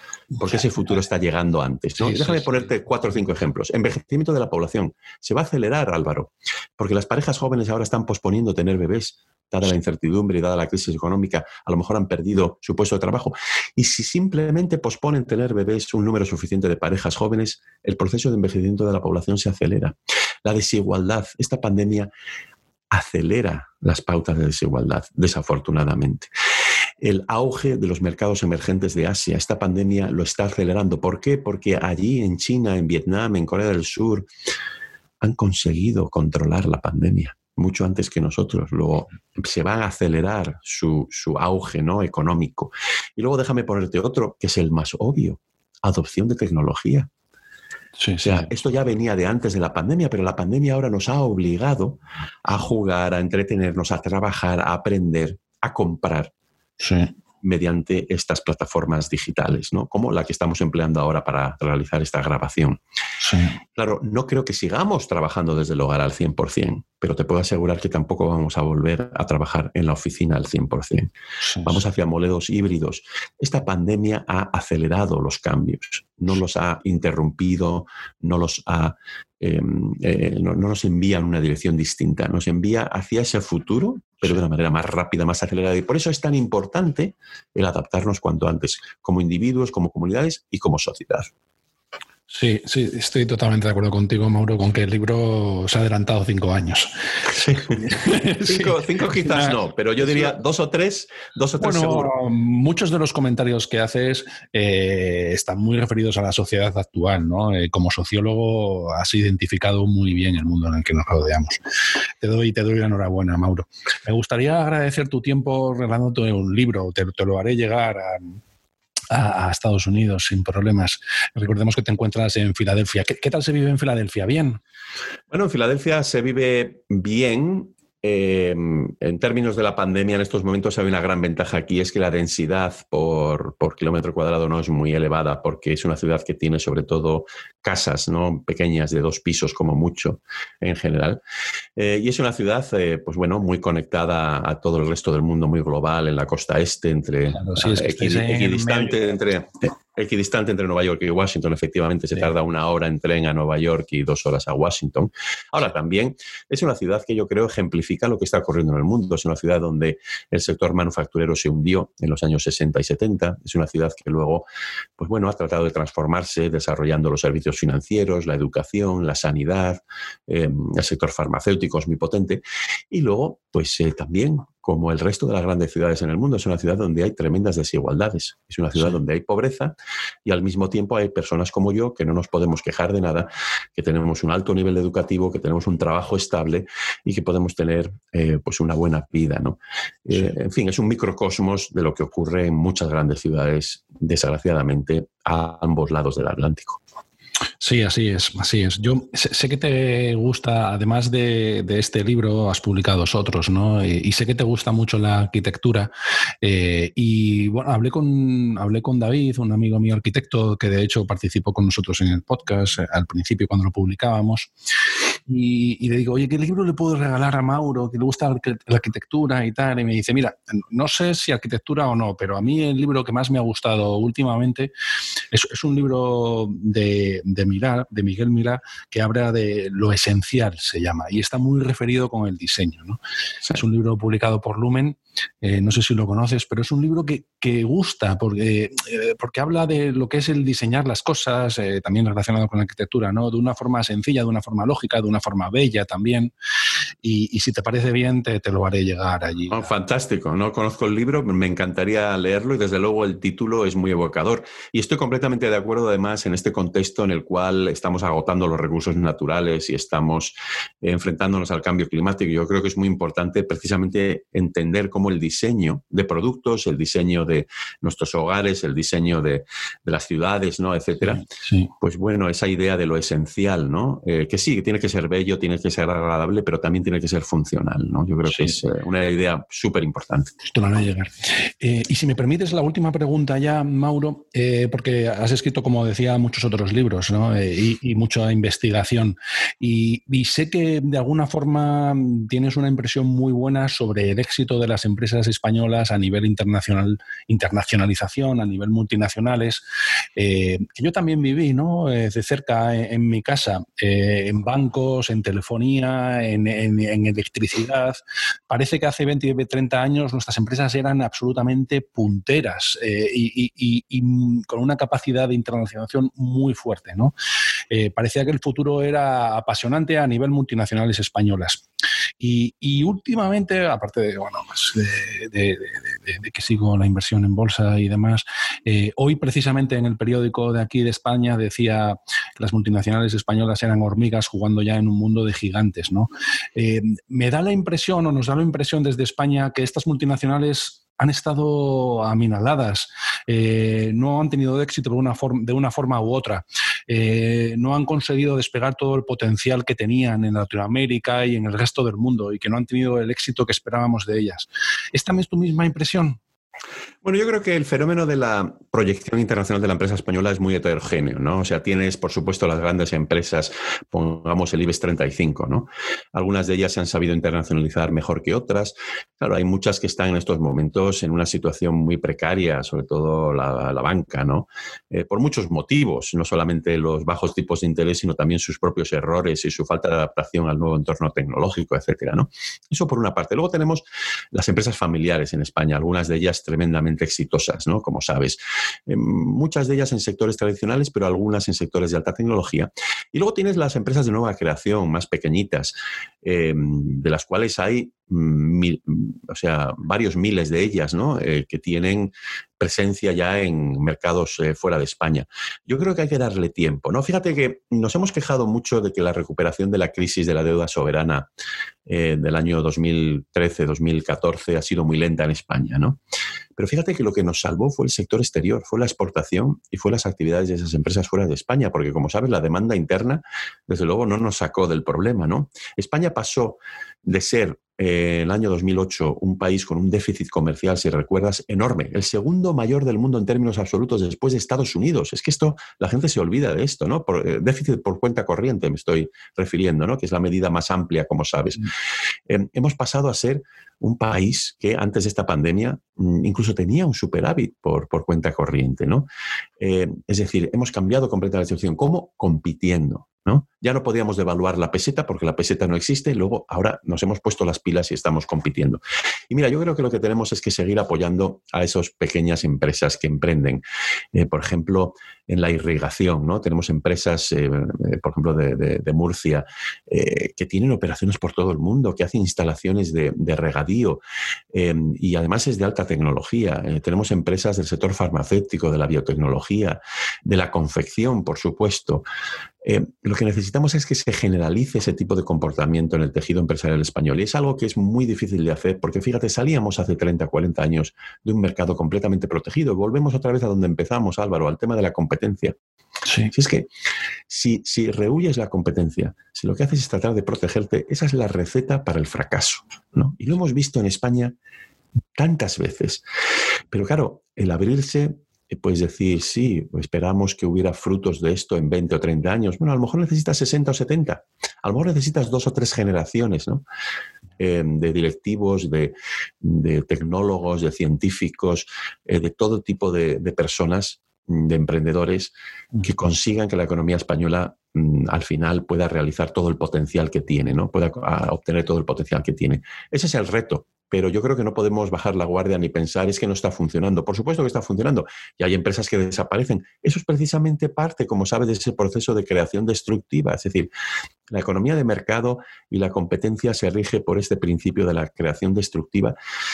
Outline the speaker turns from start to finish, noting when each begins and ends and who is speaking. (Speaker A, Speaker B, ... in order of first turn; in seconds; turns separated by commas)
Speaker A: 0.4-22.1, Speaker B: 2.0-2.4, Speaker A: 22.9-26.3, Speaker A: 27.0-34.3, Speaker A: 35.2-47.1, Speaker B: 48.0-48.5, Speaker A: 48.2-56.3, Speaker B: 56.8-57.1, Speaker A: 57.4-62.8, Speaker B: 63.2-63.6, Speaker A: 63.7-71.1, Speaker B: 71.4-71.8, Speaker A: 71.6-91.3, Speaker B: 92.3-97.1, Speaker A: 97.3-97.8, Speaker B: 97.6-100.3, Speaker A: 98.4-102.1, Speaker B: 101.6-111.6, Speaker B: 112.2-118.4, Speaker B: 119.1-124.6, Speaker A: 125.3-141.2, Speaker A: 141.8-164.4, Speaker B: 147.3-148.9, Speaker A: 165.0-196.8, Speaker B: 197.6-205.9, Speaker B: 206.4-214.5, Speaker B: 215.3-224.7, Speaker B: 225.3-246.3, Speaker B: 247.0-249.7, Speaker A: 249.5-271.2, Speaker B: 271.2-271.7, Speaker A: 271.8-280.3, Speaker B: 278.3-278.6, Speaker B: 280.4-299.6, Speaker B: 300.1-317.1, Speaker B: 317.7-321.6, Speaker B: 322.2-356.2, Speaker A: 357.0-411.3, Speaker A: 411.9-416.0, Speaker A: 416.6-441.7, Speaker A: 442.3-449.1, Speaker A: 449.6-463.6, Speaker A: 464.1-474.0, Speaker A: 474.5-482.0, Speaker A: 482.6-495.5, Speaker B: 496.0-496.3, Speaker A: 496.3-496.7, Speaker A: 497.3-504.3, Speaker A: 505.1-506.0, Speaker A: 506.7-516.6, Speaker A: 517.4-543.7, Speaker A: 544.3-549.1